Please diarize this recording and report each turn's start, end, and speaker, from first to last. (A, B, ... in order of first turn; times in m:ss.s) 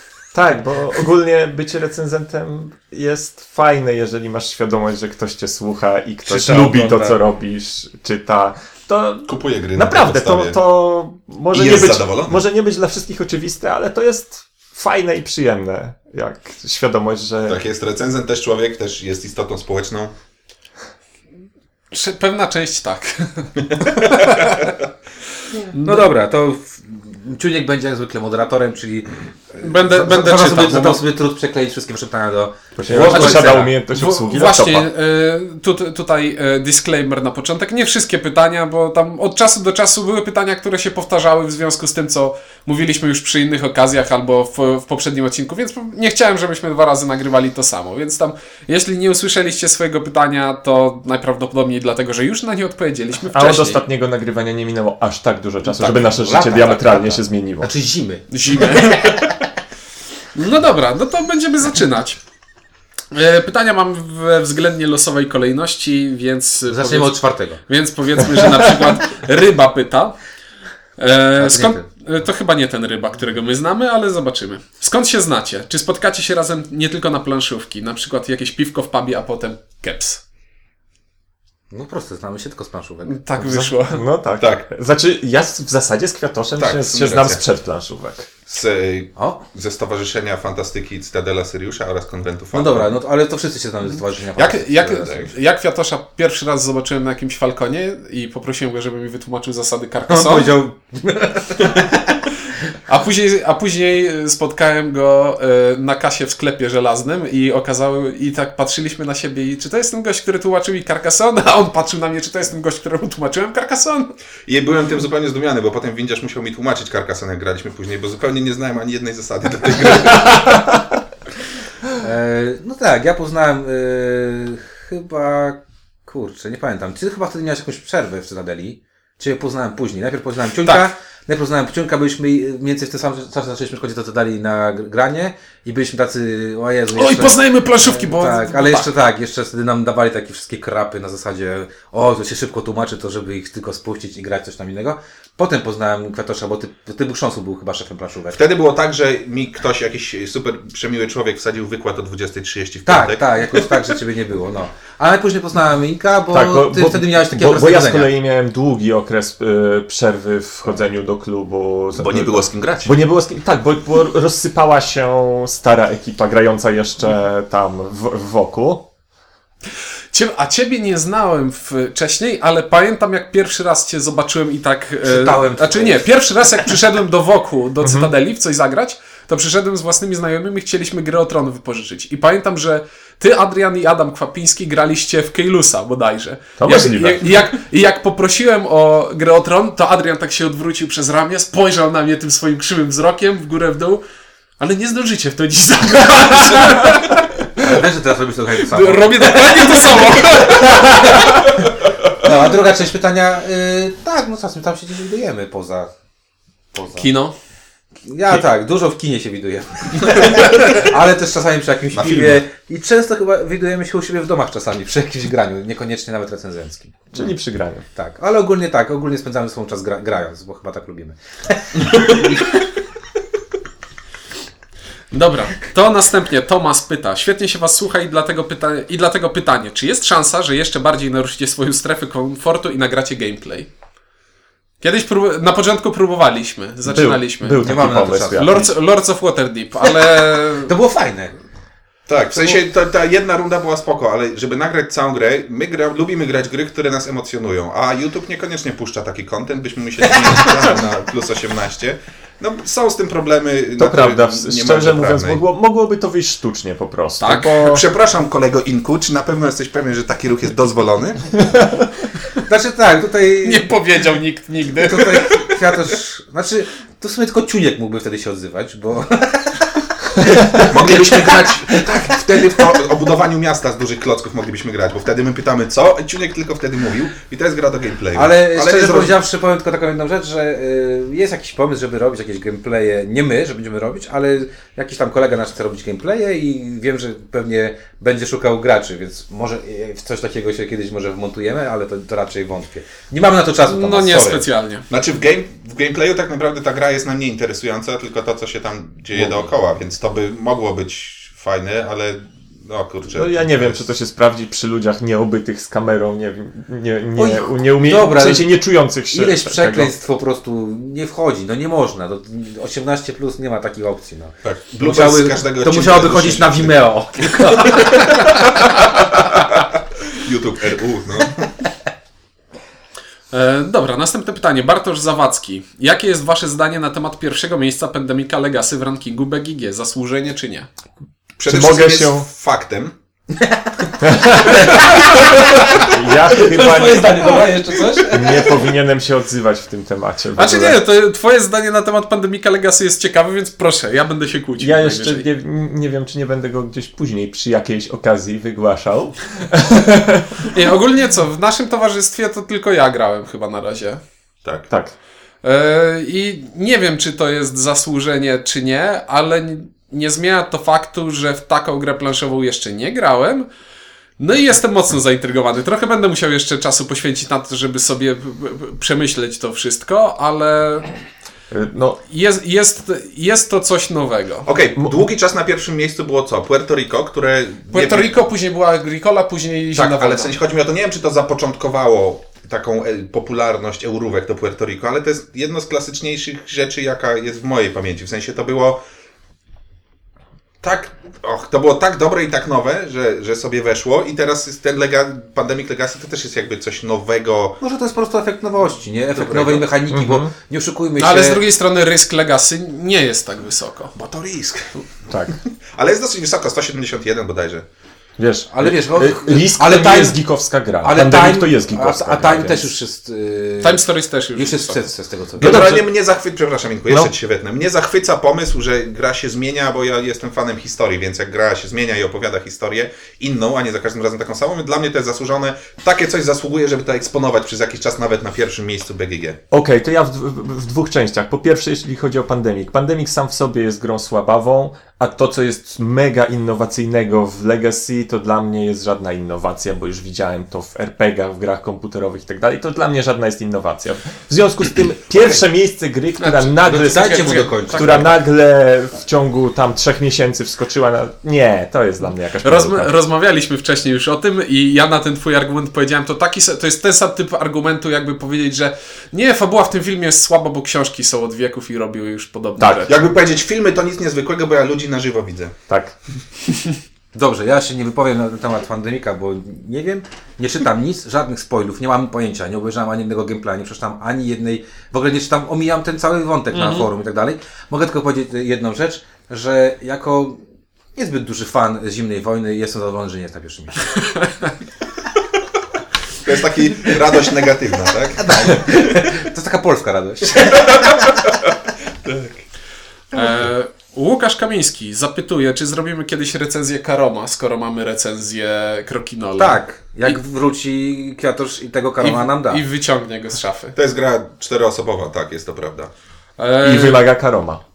0:00.3-0:17.6 A
0:06.3-0:07.2 B
0:09.3-0:10.6 C
0:11.5-0:12.4 C
0:17.5-0:20.1 C
0:21.9-0:24.7 D
0:23.6-0:24.6 C
0:25.6-0:26.1 D
0:25.8-0:33.7 B
0:29.6-0:31.0 D
0:32.8-0:34.9 A
0:33.0-0:53.8 D
0:53.3-0:57.7 A
0:55.6-0:59.3 B
0:58.3-0:59.3 D
1:00.3-1:02.2 D
1:03.1-1:10.2 D
1:06.7-1:07.6 B
1:08.5-1:08.9 A
1:11.0-1:20.2 D
1:11.4-1:11.8 B
1:21.7-1:23.2 B
1:23.0-1:24.0 D
1:23.4-1:28.3 A
1:24.4-1:24.6 C
1:26.6-1:27.4 C
1:28.4-1:32.9 C
1:29.2-1:29.4 B
1:32.5-1:35.3 B
1:33.9-1:40.5 D
1:40.1-1:42.3 B
1:42.9-1:54.1 D
1:54.5-2:00.6 C
2:01.9-2:28.4 B
2:10.6-2:10.9 D
2:16.9-2:18.9 D
2:28.3-2:33.9 C
2:32.8-2:38.1 B
2:36.3-2:48.8 A
2:42.0-2:43.0 C
2:50.1-3:14.0 D
2:55.0-2:56.0 B
2:57.8-2:58.1 A
3:06.6-3:07.3 A
3:14.6-3:17.2 D
3:17.6-3:25.9 B
3:18.6-3:21.4 D
3:26.7-3:27.1 B
3:27.0-3:27.3 D
3:28.0-3:37.3 B
3:31.9-3:32.4 C
3:37.1-3:37.8 A
3:37.9-3:42.6 B
3:41.8-3:42.2 C
3:45.1-3:53.7 D
3:54.8-4:00.7 D
3:56.8-3:58.7 A
3:57.6-3:58.7 B
3:59.8-4:01.3 B
4:02.1-4:15.4 C
4:13.8-4:17.8 A
4:17.2-4:17.6 D
4:17.6-4:21.3 C
4:22.4-4:23.7 B
4:23.4-4:25.9 D
4:24.8-4:32.7 B
4:30.6-4:39.2 C
4:38.1-4:54.5 B
4:53.6-4:54.8 D
4:54.9-5:03.9 C
4:59.2-4:59.4 B
5:03.1-5:09.9 A
5:07.2-5:19.3 B
5:14.4-5:18.1 C
5:20.1-5:21.5 C
5:23.3-5:30.7 D
5:31.4-5:32.9 C
5:31.4-5:32.2 A
5:34.0-5:40.8 A
5:34.3-5:38.6 B
5:40.4-5:45.2 D
5:44.6-5:50.5 A
5:50.5-5:54.0 D
5:55.4-6:03.5 D
6:04.2-6:11.0 D
6:11.5-6:12.0 A
6:12.1-6:14.5 D
6:14.4-6:18.1 C
6:17.7-6:20.3 D
6:19.7-6:28.8 C
6:30.6-6:37.6 C
6:37.6-6:41.4 B
6:39.1-6:39.7 C
6:39.9-6:40.3 A
6:41.0-6:43.9 D
6:43.9-6:44.8 C
6:45.1-6:45.4 A
6:45.7-6:47.6 C
6:48.2-6:52.7 A
6:48.5-6:50.2 B
6:50.8-6:53.8 B
6:53.6-6:54.9 D
6:54.3-6:55.7 B
6:55.4-6:55.9 A
6:55.4-7:09.4 C
7:09.5-7:32.9 A
7:26.2-7:28.1 D
7:26.6-7:28.1 B
7:32.4-7:42.9 D
7:42.6-7:42.9 A
7:42.9-7:45.5 C
7:45.7-7:45.9 A
7:47.1-8:00.4 B
7:56.5-7:56.9 D
8:00.9-8:03.9 B
8:03.9-8:04.5 D
8:06.2-8:08.6 C
8:08.2-8:11.2 B
8:10.5-8:12.4 C
8:13.1-8:20.2 D
8:19.4-8:22.6 B
8:22.0-8:23.8 D
8:23.7-8:25.9 C
8:26.4-8:27.1 D
8:26.6-8:27.6 A